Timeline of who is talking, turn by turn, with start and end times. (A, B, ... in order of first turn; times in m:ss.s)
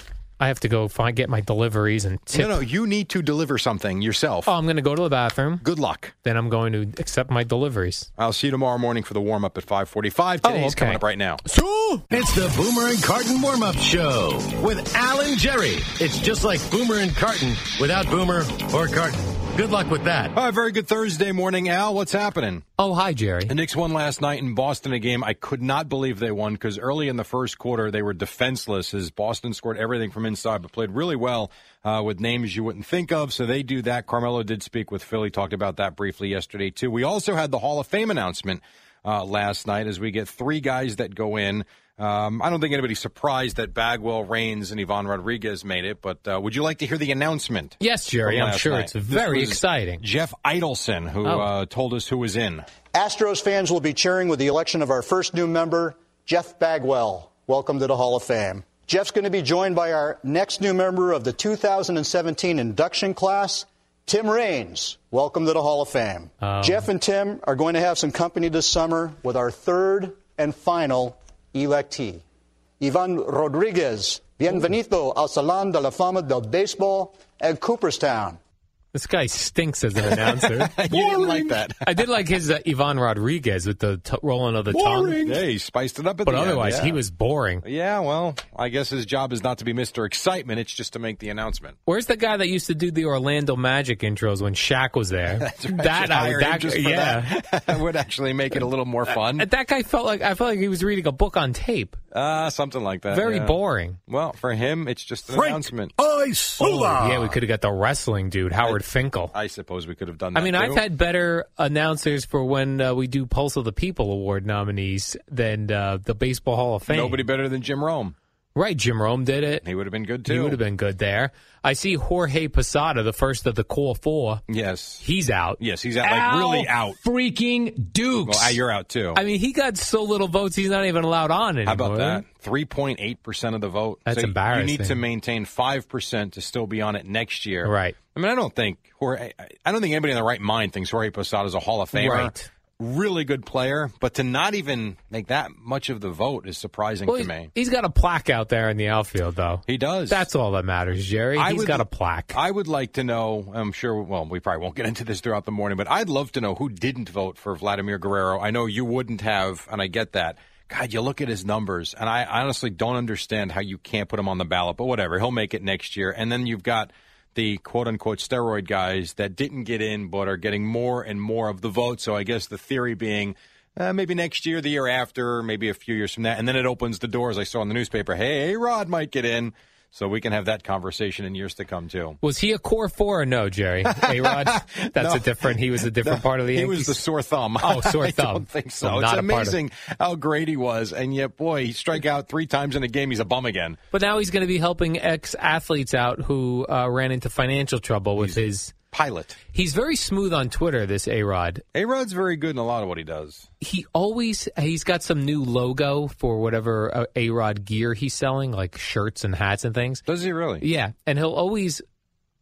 0:00.4-0:02.6 A
0:02.3-0:04.5 B
0:04.4-0:05.6 A
0:05.6-0:06.1 B
0:06.2-0:08.1 A
0:08.2-0:11.4 B
0:10.4-0:11.0 A
0:11.5-0:20.3 C
0:20.3-0:22.7 B
0:22.8-0:23.5 A
0:23.5-0:52.6 B
0:47.8-0:50.0 A
0:51.2-0:51.5 A
0:52.9-1:12.2 D
1:06.4-1:06.9 A
1:12.8-1:18.4 D
1:18.9-1:20.9 A
1:20.1-1:21.9 B
1:21.8-1:25.3 A
1:24.7-1:27.0 B
1:26.2-1:27.6 A
1:27.6-1:31.8 B
1:31.8-1:37.4 A
1:35.4-1:39.5 B
1:39.3-1:42.0 A
1:42.1-1:45.9 B
1:43.1-1:44.0 A
1:45.3-1:47.3 C
1:46.6-1:49.3 A
1:49.3-1:50.8 B
1:50.3-1:57.2 A
1:56.9-1:58.1 B
1:58.5-1:59.6 A
1:59.6-2:00.6 B
2:00.3-2:04.4 A
2:04.5-2:05.0 B
2:05.0-2:05.6 A
2:05.6-2:07.0 B
2:06.0-2:08.6 C
2:08.2-2:09.2 B
2:09.1-2:12.2 A
2:11.6-2:27.5 B
2:14.1-2:15.0 A
2:17.6-2:18.0 A
2:21.9-2:22.5 A
2:27.1-2:32.4 A
2:29.7-2:30.2 B
2:31.4-3:02.2 B
3:02.2-3:07.0 A
3:03.9-3:13.8 B
3:07.6-3:09.6 A
3:13.9-3:18.7 A
3:18.2-3:19.4 B
3:19.5-3:21.6 A
3:21.7-3:23.5 B
3:23.6-3:30.0 A
3:30.1-3:30.6 B
3:30.6-3:31.8 A